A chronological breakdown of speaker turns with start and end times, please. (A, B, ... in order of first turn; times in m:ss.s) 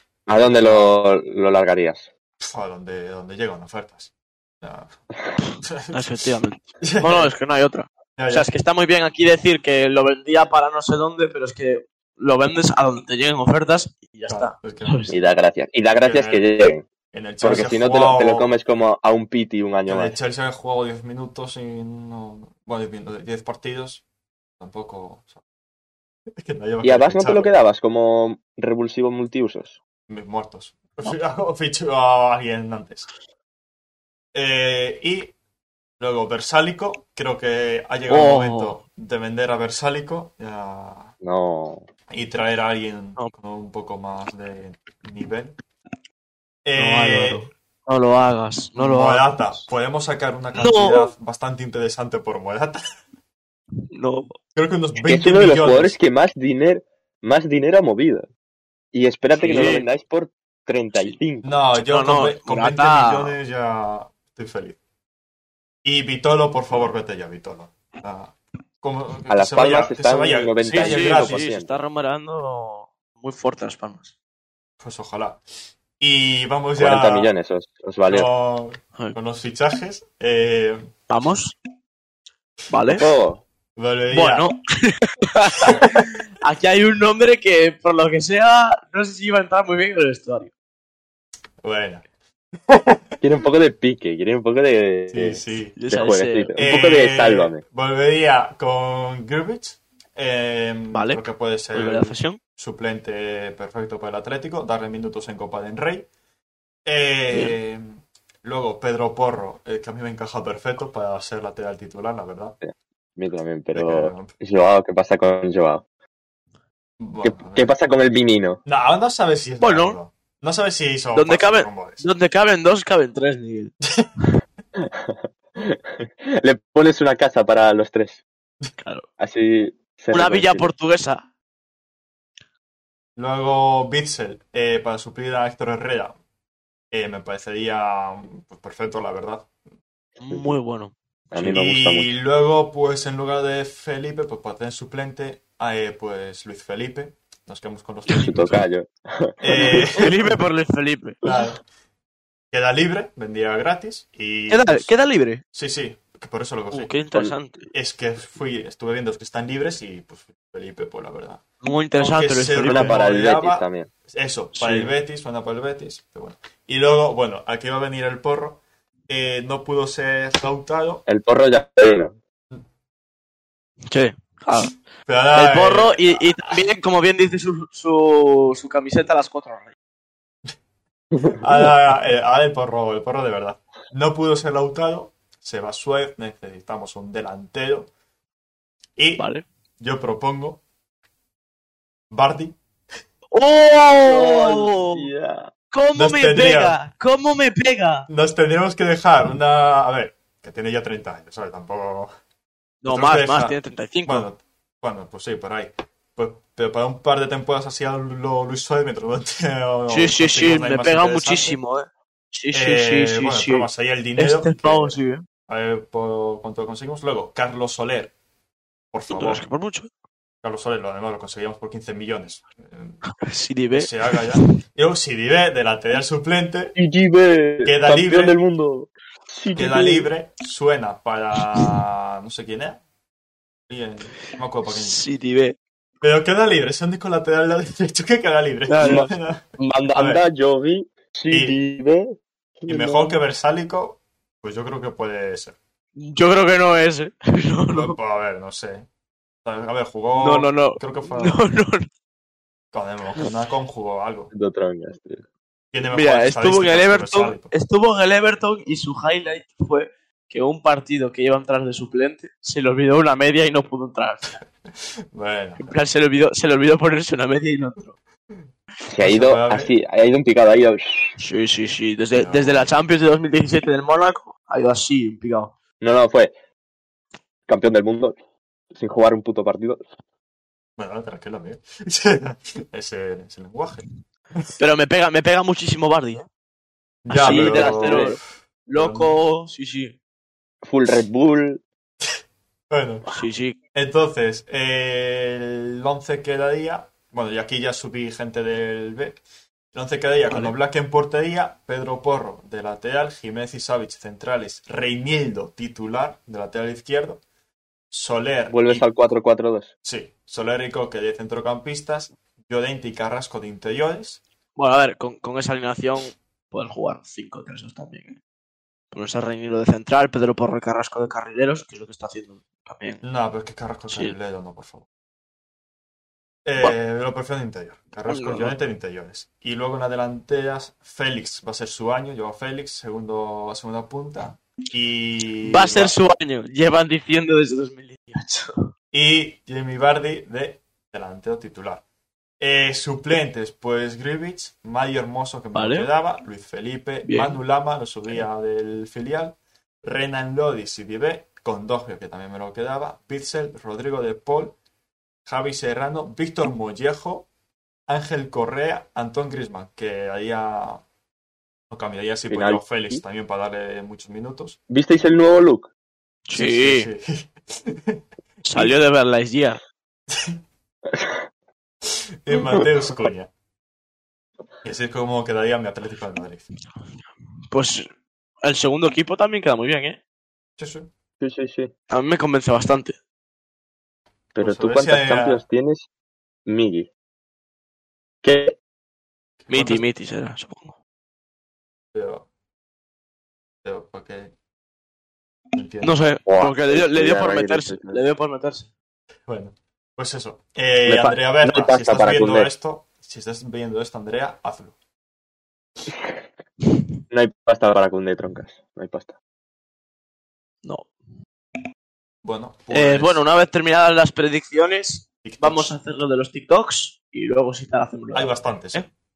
0:00.3-0:02.1 A
0:00.3-0:01.0 B
0:02.4-0:04.1 B
0:04.6-0:06.0 B
0:05.9-0:15.1 C
0:06.8-0:07.3 B
0:08.2-0:08.5 B
0:14.3-0:15.1 B
0:15.1-0:16.8 A
0:16.0-0:16.5 B
0:17.1-0:18.5 B
0:17.4-0:20.2 A
0:19.9-0:24.0 B
0:24.6-0:25.3 B
0:26.4-0:27.5 B
0:26.8-0:29.8 A
0:30.1-0:33.1 B
0:34.3-0:35.3 B
0:36.0-0:41.1 B
0:38.1-0:38.8 C
0:41.2-0:41.8 A
0:42.1-0:45.5 B
0:46.6-0:47.5 B
0:46.8-0:49.6 C
0:48.8-0:52.8 B
0:50.5-0:51.1 C
0:53.9-0:54.4 C
0:54.5-0:56.0 B
0:55.0-0:58.3 A
0:58.9-1:01.5 A
0:59.3-0:59.9 C
1:01.4-1:04.8 B
1:01.8-1:03.4 C
1:05.8-1:11.5 B
1:09.3-1:11.8 A
1:10.7-1:14.1 C
1:14.8-1:15.4 B
1:16.0-1:17.3 B
1:16.8-1:18.3 A
1:18.1-1:20.9 B
1:21.1-1:21.5 C
1:22.7-1:23.0 C
1:22.9-1:23.4 A
1:23.8-1:24.5 B
1:24.1-1:30.5 C
1:25.6-1:26.0 B
1:31.6-1:32.0 B
1:32.7-1:33.1 B
1:33.2-1:37.6 A
1:35.1-1:35.8 B
1:35.8-1:36.5 C
1:36.6-1:46.0 B
1:40.9-1:42.4 C
1:46.8-1:52.6 B
1:52.6-1:55.8 A
1:53.7-1:54.3 B
1:57.0-1:57.7 B
1:57.2-1:58.6 A
1:58.6-2:02.0 B
1:59.6-2:00.0 C
2:01.1-2:03.7 C
2:04.8-2:08.2 A
2:08.8-2:09.0 C
2:09.2-2:10.7 A
2:10.1-2:11.2 C
2:13.2-2:16.2 B
2:16.9-2:19.5 B
2:20.2-2:20.9 C
2:21.3-2:22.1 A
2:21.4-2:28.6 B
2:28.1-2:30.0 A
2:29.4-2:30.4 B
2:29.9-2:31.2 C
2:31.2-2:31.6 B
2:32.5-2:34.9 B
2:34.5-2:35.4 C
2:35.5-2:37.0 B
2:36.7-2:37.6 C
2:37.7-2:41.4 B
2:41.6-2:43.0 C
2:42.0-2:51.0 B
2:42.6-2:43.9 A
2:44.5-2:44.9 C
2:51.0-2:52.1 A
2:53.9-2:54.7 C
2:55.1-2:56.4 B
2:55.3-2:59.7 C
3:01.3-3:07.9 B
3:09.0-3:09.3 B
3:09.2-3:09.4 C
3:09.8-3:10.6 B
3:12.1-3:12.6 B
3:13.3-3:15.1 C
3:14.0-3:15.5 A
3:15.7-3:18.1 C
3:16.0-3:16.8 B
3:18.1-3:22.1 B
3:22.8-3:24.3 C
3:22.9-3:31.6 B
3:29.9-3:35.2 C
3:32.5-3:38.1 B
3:38.9-3:39.4 B
3:39.1-3:39.9 C
3:40.4-3:43.0 B
3:43.2-3:44.5 C
3:43.7-3:46.7 B
3:46.8-3:50.1 A
3:47.6-3:48.4 B
3:49.6-3:52.8 B
3:53.7-3:55.0 B
3:54.6-3:55.6 C
3:56.0-3:59.4 B
3:58.7-3:59.1 C
3:58.8-4:03.2 A
3:59.9-4:00.2 B
4:01.3-4:01.6 B
4:02.7-4:05.6 B
4:06.0-4:08.0 C
4:07.7-4:08.8 B
4:09.4-4:11.4 B
4:10.2-4:11.9 C
4:12.7-4:14.3 B
4:14.3-4:15.2 A
4:15.7-4:17.5 B
4:15.9-4:24.4 C
4:25.1-4:25.8 B
4:25.6-4:27.9 C
4:28.9-4:31.2 A
4:29.0-4:29.7 B
4:31.2-4:35.5 C
4:32.1-4:32.7 B
4:35.8-4:36.3 A
4:37.5-4:38.2 A
4:38.7-4:39.8 A
4:40.8-4:43.8 B
4:44.6-4:46.3 C
4:47.0-4:48.2 B
4:47.1-4:50.0 C
4:47.1-4:48.2 A
4:48.7-4:49.1 B
4:50.6-4:51.6 A
4:52.7-4:53.0 B
4:53.1-4:53.6 C
4:53.7-4:59.2 B
4:59.7-5:07.2 B
5:07.9-5:08.9 B
5:08.5-5:09.7 A
5:09.8-5:14.2 B
5:14.6-5:18.2 C
5:18.9-5:23.0 C
5:23.0-5:24.8 B
5:23.9-5:24.1 C
5:26.4-5:35.9 B
5:28.1-5:28.6 C
5:35.4-5:38.7 C
5:38.9-5:41.8 B
5:42.4-5:54.5 B
5:45.5-5:45.9 C
5:47.0-5:47.4 C
5:55.2-5:57.3 B
5:57.9-6:00.8 B
6:01.7-6:04.6 B
6:02.3-6:03.0 A
6:04.7-6:05.7 A
6:06.3-6:06.9 C
6:06.3-6:08.0 B
6:08.4-6:09.6 C
6:10.9-6:11.2 A
6:11.9-6:13.3 B
6:14.6-6:16.5 B
6:17.5-6:17.9 C
6:18.4-6:20.0 C
6:20.6-6:20.9 B
6:21.2-6:21.7 A
6:21.9-6:23.0 C
6:24.3-6:25.9 A
6:24.4-6:25.4 B
6:26.4-6:26.9 A
6:28.2-6:28.6 A
6:29.4-6:29.8 B
6:29.5-6:30.7 C
6:31.9-6:32.2 B
6:33.6-6:34.3 B
6:35.5-6:36.0 B
6:35.8-6:38.7 C
6:36.3-6:38.0 A
6:39.3-6:44.7 B
6:40.8-6:42.5 A
6:47.1-6:49.2 A
6:50.6-6:50.9 C
6:52.2-6:53.2 B
6:52.7-6:58.9 C
6:55.2-6:55.7 B
6:58.1-6:58.9 B